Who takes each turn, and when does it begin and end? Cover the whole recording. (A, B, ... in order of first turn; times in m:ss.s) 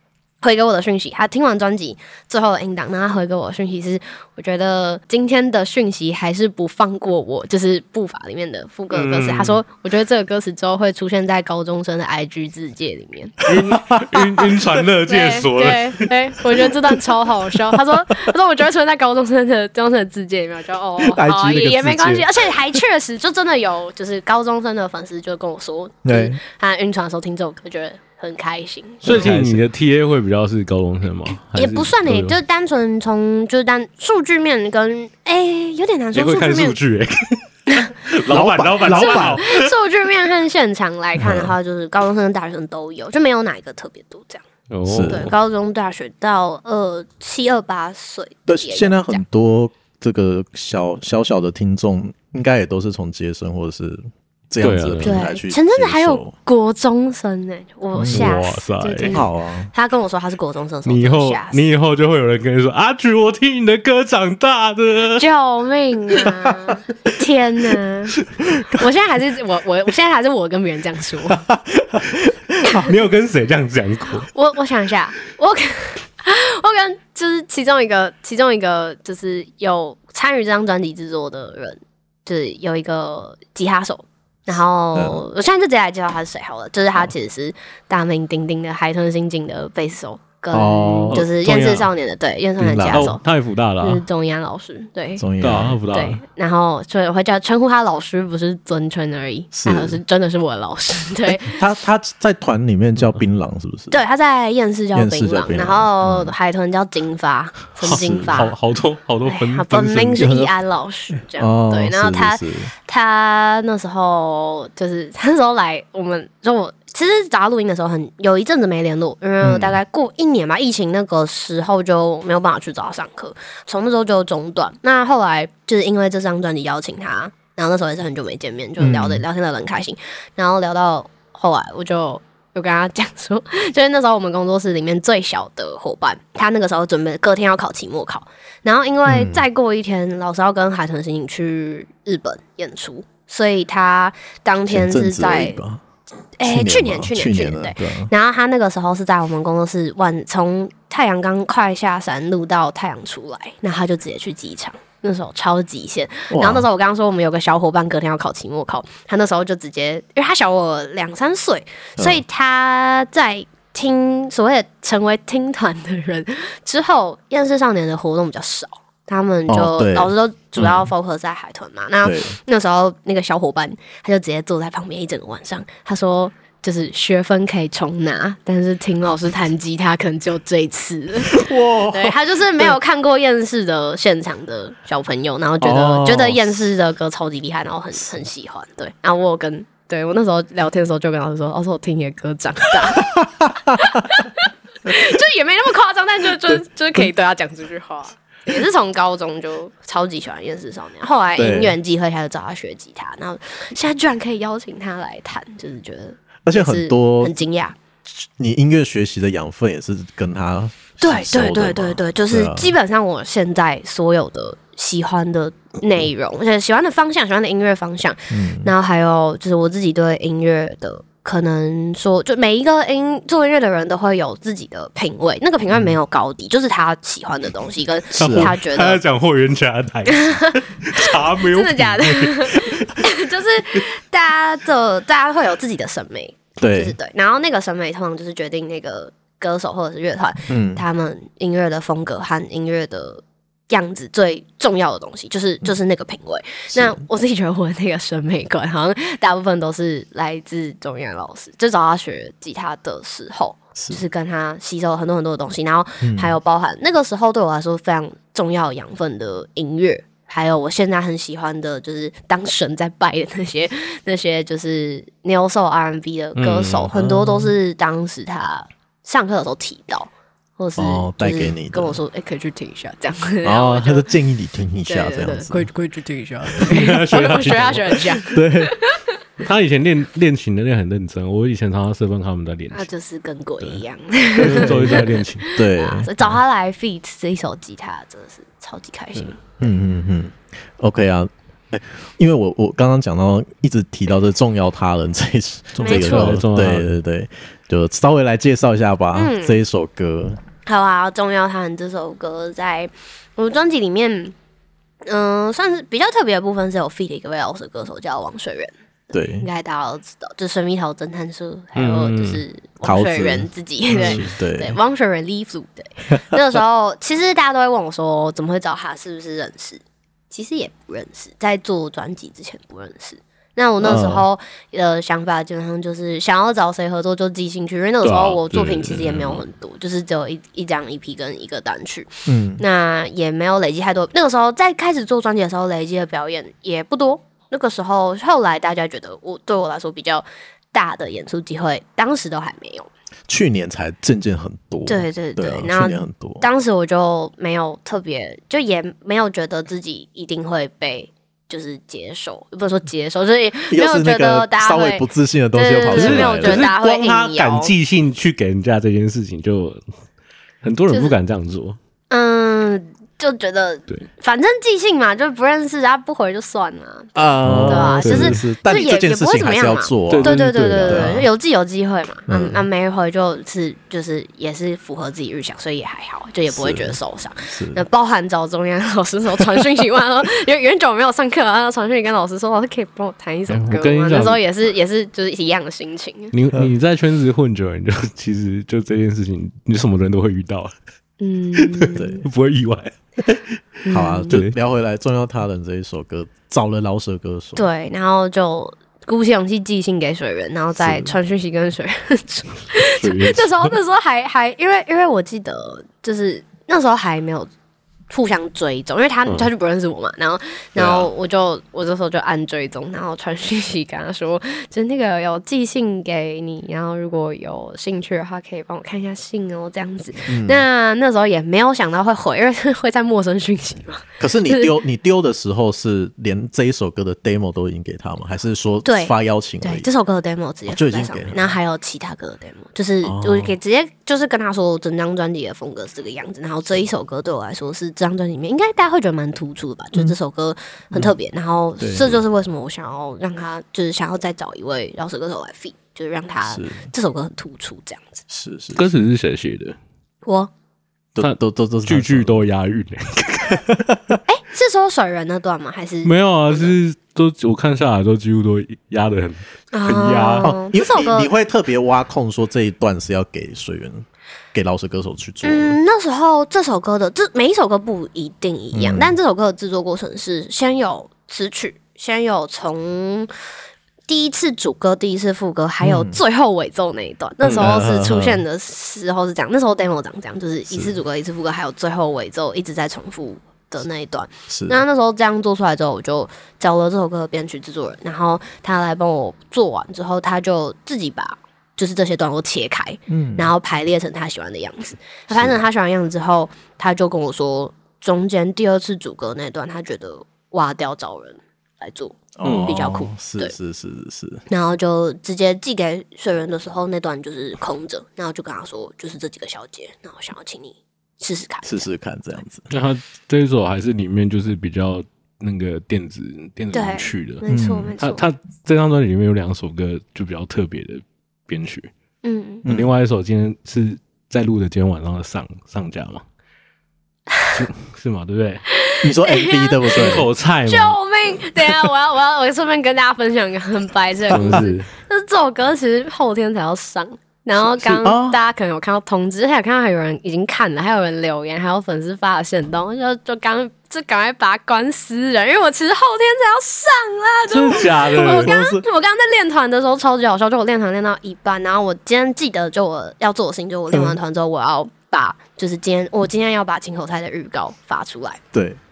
0:00.4-0:13.5 A
0:08.9-0:09.6 B
0:13.4-0:16.1 B
0:13.7-0:14.4 C
0:15.1-0:29.3 A
0:21.0-0:22.8 C
0:26.0-0:26.4 C
0:29.0-0:29.6 C
0:29.0-0:32.4 B
0:31.5-0:36.8 A
0:36.1-0:39.7 B
0:38.3-0:39.4 C
0:38.9-0:44.4 A
0:41.2-0:41.5 C
0:44.7-0:45.3 B
0:44.9-0:45.3 C
0:45.0-0:49.2 A
0:48.5-0:56.3 C
0:54.6-0:55.2 B
0:55.0-1:01.6 A
0:57.9-0:58.3 C
0:58.1-0:59.2 B
0:59.1-0:59.7 C
1:00.8-1:05.2 B
1:05.2-1:11.4 A
1:11.4-1:12.8 C
1:12.7-1:14.3 B
1:14.3-1:33.2 A
1:24.9-1:25.2 C
1:30.5-1:31.2 C
1:31.0-1:31.9 B
1:32.6-1:33.1 C
1:32.9-1:34.0 B
1:33.8-1:35.2 A
1:35.2-1:35.8 C
1:35.4-1:36.2 B
1:35.9-1:41.6 A
1:39.5-1:40.0 C
1:41.4-1:43.9 C
1:43.9-1:48.5 A
1:44.9-1:46.3 C
1:47.8-1:50.3 B
1:47.8-1:48.4 C
1:49.2-2:25.6 A
1:50.2-1:50.5 C
1:51.4-1:52.7 C
1:59.4-1:59.8 C
2:08.8-2:09.2 C
2:19.0-2:19.4 C
2:24.7-2:25.8 C
2:26.4-3:27.8 A
2:26.4-2:28.1 C
2:36.3-2:36.7 C
2:42.0-2:42.2 C
2:49.5-2:50.9 C
2:52.0-2:52.3 C
3:01.3-3:02.7 C
3:05.6-3:06.5 C
3:13.0-3:13.9 C
3:21.4-3:21.8 C
3:26.4-3:27.3 C
3:28.1-3:32.8 C
3:31.0-3:49.0 A
3:38.3-3:38.7 C
3:48.2-3:48.5 C
3:48.2-3:52.9 B
3:50.1-4:34.0 A
3:56.6-3:57.0 C
4:00.5-4:00.8 C
4:06.7-4:07.0 C
4:13.7-4:14.0 C
4:16.0-4:16.3 C
4:26.4-4:26.9 B
4:26.9-4:27.5 C
4:30.8-4:32.0 C
4:33.4-4:35.7 C
4:34.8-4:39.2 A
4:36.6-4:38.1 B
4:38.3-4:38.7 C
4:39.4-4:42.9 B
4:42.7-4:49.4 A
4:44.4-4:45.4 B
4:44.4-4:46.1 C
4:49.6-5:00.4 C
4:55.8-4:56.4 A
4:55.8-4:56.9 B
4:59.1-4:59.6 A
5:00.6-5:04.3 A
5:05.0-5:42.9 A
5:09.1-5:09.5 C
5:11.8-5:12.4 B
5:12.8-5:14.8 C
5:14.0-5:14.3 B
5:16.1-5:16.4 C
5:23.8-5:24.2 C
5:28.0-5:29.4 B
5:32.3-5:32.6 C
5:43.3-5:46.4 C
5:44.8-5:57.7 A
5:53.7-5:56.7 C
5:55.9-5:59.8 B
6:00.6-6:01.8 B
6:00.9-6:01.1 A
6:02.1-6:26.3 A
6:07.2-6:11.3 C
6:07.4-6:08.4 B
6:10.1-6:11.2 B
6:12.3-6:12.6 C
6:16.5-6:17.0 C
6:17.5-6:17.8 C
6:23.5-6:24.4 B
6:26.3-6:30.7 B
6:31.2-6:32.2 A
6:31.6-6:33.4 B
6:31.9-6:32.2 C
6:33.8-6:34.3 A
6:33.9-6:37.6 C
6:34.3-6:34.5 B
6:37.6-6:47.5 A
6:40.8-6:41.1 C
6:43.0-6:43.8 B
6:48.1-7:04.7 A
6:50.8-6:51.1 C
7:00.3-7:00.6 C
7:04.2-7:09.9 C
7:08.8-7:28.2 A
7:10.7-7:11.4 C
7:13.0-7:13.5 C
7:21.8-7:22.2 C
7:26.4-7:26.8 C
7:28.3-7:28.8 C
7:28.7-7:29.8 B
7:30.2-7:30.5 A
7:31.1-7:32.4 C
7:31.2-7:33.6 B
7:33.5-7:34.2 C
7:34.3-7:36.7 A
7:36.0-7:40.5 B
7:39.7-7:41.3 A
7:40.4-7:45.8 C
7:45.4-7:53.3 A
7:48.7-7:49.1 C
7:54.1-8:23.5 A
7:55.8-7:56.2 C
7:57.5-7:58.4 C
8:04.5-8:04.8 C
8:13.1-8:13.5 C
8:15.3-8:15.6 C
8:22.4-8:24.4 C
8:22.4-8:22.7 B
8:24.5-8:31.9 A
8:31.6-8:32.7 C
8:32.7-8:37.4 B
8:36.7-8:38.2 A
8:37.5-8:38.0 C
8:38.0-8:41.9 B
8:42.2-8:42.6 A
8:42.6-8:46.2 B
8:47.5-8:48.6 B
8:48.7-9:18.4 A
8:49.0-8:50.3 C
8:49.9-8:51.0 B
8:54.3-8:54.9 B
8:54.3-8:54.6 C
8:57.7-8:58.4 C
9:07.5-9:08.5 B
9:08.1-9:08.8 C
9:18.5-9:18.8 C